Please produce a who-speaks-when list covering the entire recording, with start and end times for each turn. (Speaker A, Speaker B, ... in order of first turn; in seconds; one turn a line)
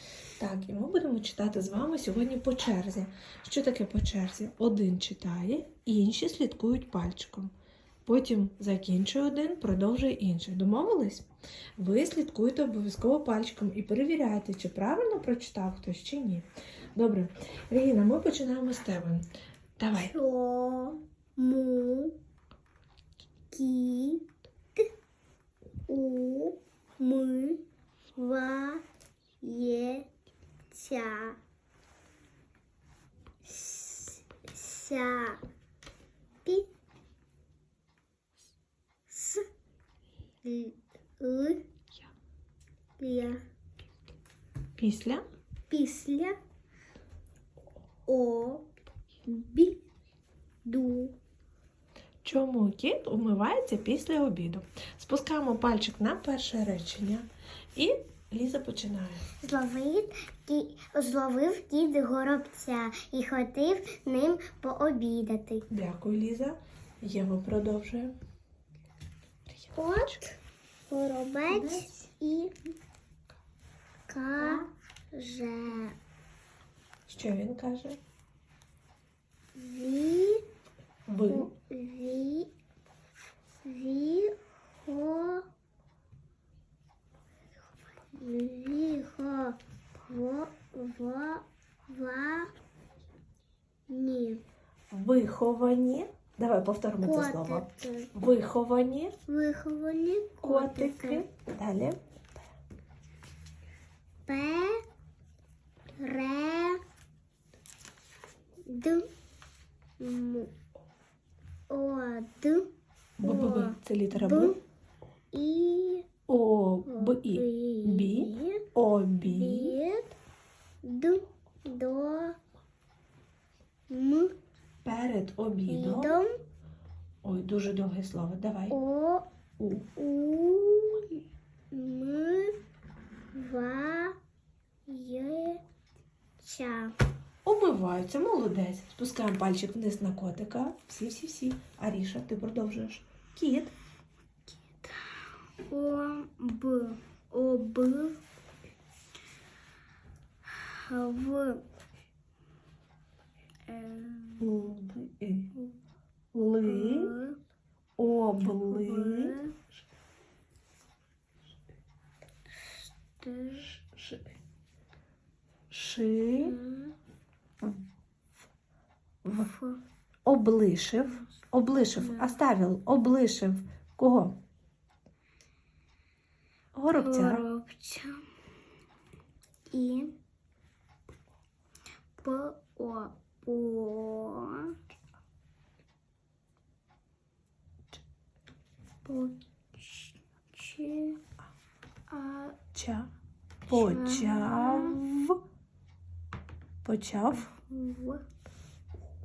Speaker A: 0.4-7.5
Speaker A: 8.1-19.3
Speaker A: 19.8-20.1
Speaker B: 19.9-22.1
Speaker B: 23.5-24.9
Speaker B: 25.9-27.6
Speaker B: 28.1-28.8
Speaker B: 29.4-30.1
Speaker B: 30.7-31.4
Speaker B: 33.4-35.4
Speaker B: 39.1-39.5
Speaker B: 40.4-41.6
Speaker B: 43.0-43.4
Speaker A: 44.8-45.2
Speaker B: 45.7-46.4
Speaker B: 48.0-48.7
Speaker B: 49.2-49.8
Speaker B: 50.6-51.1
Speaker A: 52.2-59.3
Speaker B: 59.4-65.7
Speaker A: 65.7-68.1
Speaker A: 69.5-70.3
Speaker B: 69.8-70.4
Speaker B: 70.9-72.6
Speaker B: 74.1-76.0
Speaker A: 77.1-78.0
Speaker B: 79.5-80.5
Speaker A: 81.1-81.5
Speaker B: 81.3-82.5
Speaker B: 83.6-85.5
Speaker B: 88.1-92.5
Speaker B: 93.9-94.4
Speaker A: 94.9-99.1
Speaker B: 97.0-98.1
Speaker B: 99.3-101.2
Speaker A: 100.4-102.0
Speaker B: 104.2-104.8
Speaker B: 106.0-106.8
Speaker B: 108.7-109.1
Speaker B: 110.0-110.5
Speaker B: 111.7-114.6
Speaker A: 113.2-114.6
Speaker B: 115.3-116.1
Speaker A: 116.3-119.8
Speaker B: 116.8-118.6
Speaker B: 119.2-120.1
Speaker B: 120.8-122.4
Speaker B: 123.9-124.3
Speaker A: 124.8-126.2
Speaker B: 125.7-126.4
Speaker A: 127.2-128.8
Speaker B: 128.7-129.3
Speaker A: 129.6-129.9
Speaker B: 129.9-132.6
Speaker B: 133.3-134.2
Speaker B: 134.9-135.6
Speaker B: 136.4-136.9
Speaker A: 137.4-143.7
Speaker B: 144.7-148.2
Speaker B: 150.5-151.6
Speaker B: 153.7-154.5
Speaker A: 154.4-155.5
Speaker A: 156.3-157.1
Speaker B: 156.6-157.4
Speaker A: 158.0-159.4
Speaker B: 158.6-159.6
Speaker B: 162.5-163.8
Speaker A: 163.8-164.2
Speaker A: 165.7-166.5
Speaker B: 166.4-166.9
Speaker A: 169.2-169.5
Speaker B: 169.3-169.8
Speaker A: 170.2-174.4
Speaker B: 171.9-172.4
Speaker A: 176.7-177.4
Speaker B: 176.9-178.3
Speaker B: 179.7-180.1
Speaker B: 182.2-184.8
Speaker B: 189.0-191.2
Speaker B: 192.1-192.6
Speaker A: 192.7-193.1
Speaker B: 193.7-195.1
Speaker A: 193.7-195.4
Speaker A: 196.8-197.5
Speaker B: 197.3-198.2